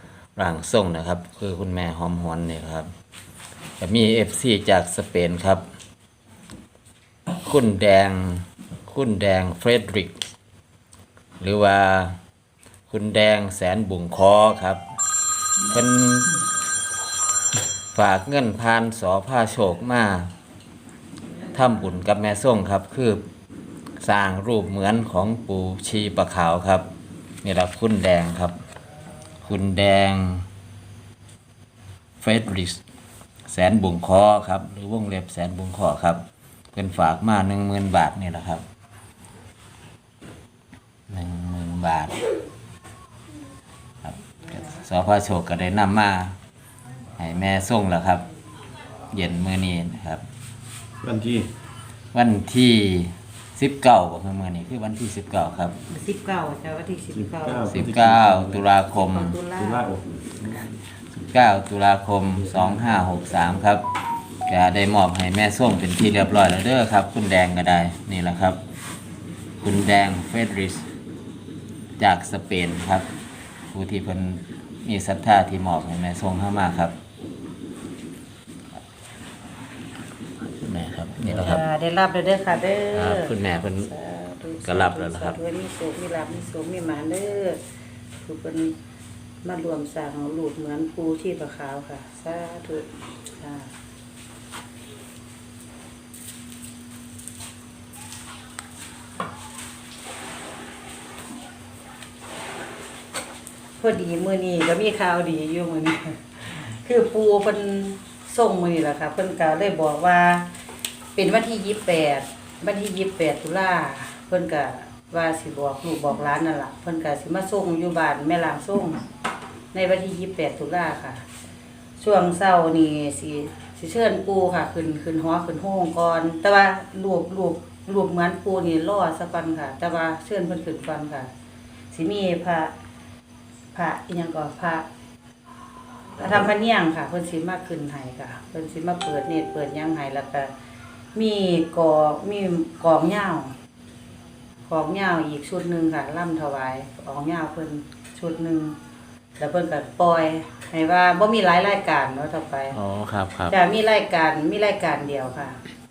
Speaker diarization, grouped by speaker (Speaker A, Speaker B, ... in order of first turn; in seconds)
Speaker A: 0.3-2.9, 3.8-5.6, 7.4-10.2, 11.4-12.2, 12.9-14.8, 15.7-16.4, 17.9-20.3, 21.5-23.2, 24.0-26.9, 27.4-28.6, 29.4-30.4, 32.2-32.8, 33.5-36.2, 36.7-38.6, 41.1-42.1, 44.0-46.3, 47.2-48.2, 49.1-50.2, 52.1-55.8, 57.7-59.4, 61.2-63.8, 64.5-68.6, 69.6-70.8, 72.0-73.1, 73.7-76.9, 80.6-81.6, 82.9-83.9, 84.6-85.4, 152.7-153.5
Speaker B: 51.0-51.5, 57.1-58.7, 59.5-60.8, 62.3-63.2
Speaker C: 55.9-57.8, 58.9-59.9, 81.3-87.6, 88.2-88.7, 89.4-93.7, 103.8-110.5, 111.1-119.0, 119.7-121.2, 122.0-131.3, 131.9-132.7, 133.7-134.8, 136.2-140.5, 141.1-143.5, 144.7-148.7, 149.4-152.8, 153.5-155.6